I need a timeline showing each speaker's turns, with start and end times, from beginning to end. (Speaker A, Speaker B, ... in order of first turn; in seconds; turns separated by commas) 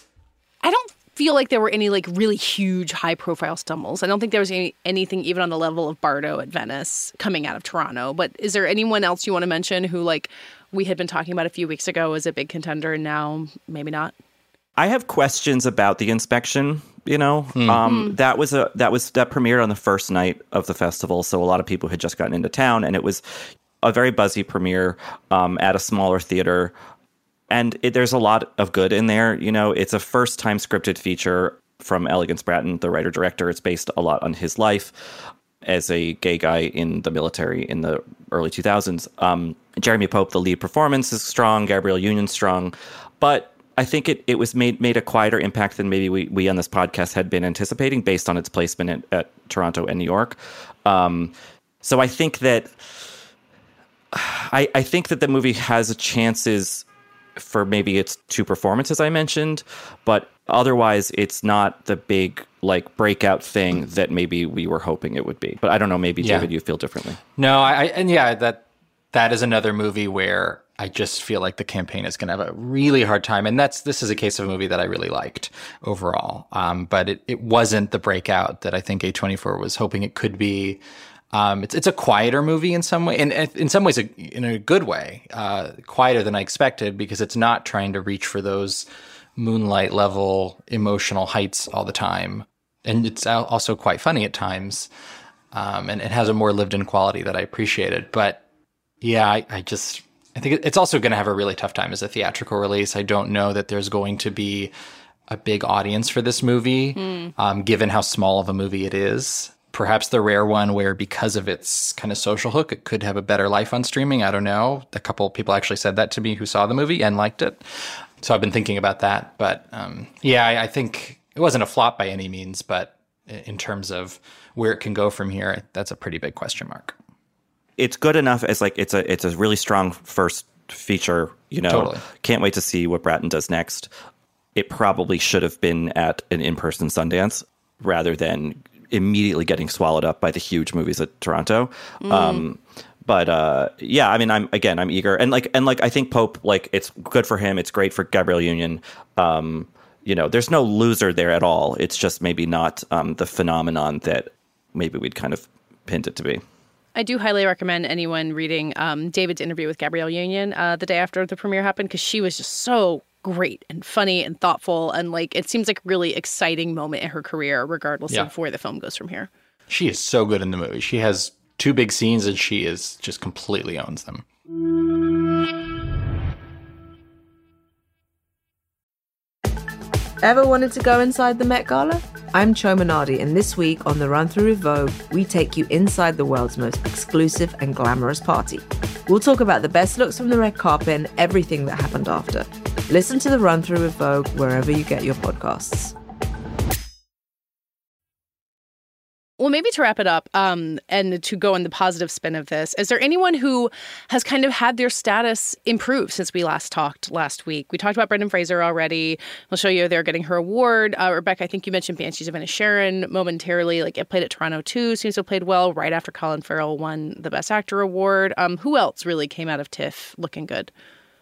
Speaker A: 0.6-14.1, Speaker B: 14.8-23.2, Speaker A: 17.8-18.1, Speaker B: 23.8-26.7, Speaker B: 27.5-34.9, Speaker B: 35.6-53.1, Speaker B: 54.1-56.9, Speaker B: 57.4-67.2, Speaker C: 66.2-66.5, Speaker C: 67.4-94.9, Speaker C: 95.5-98.4, Speaker C: 99.0-104.7, Speaker C: 105.3-127.0, Speaker A: 107.0-107.3, Speaker B: 127.8-133.9, Speaker C: 131.7-132.0, Speaker B: 134.6-156.4, Speaker A: 142.0-142.4, Speaker A: 157.0-169.3, Speaker C: 169.7-174.3, Speaker D: 180.2-195.9, Speaker A: 199.4-220.7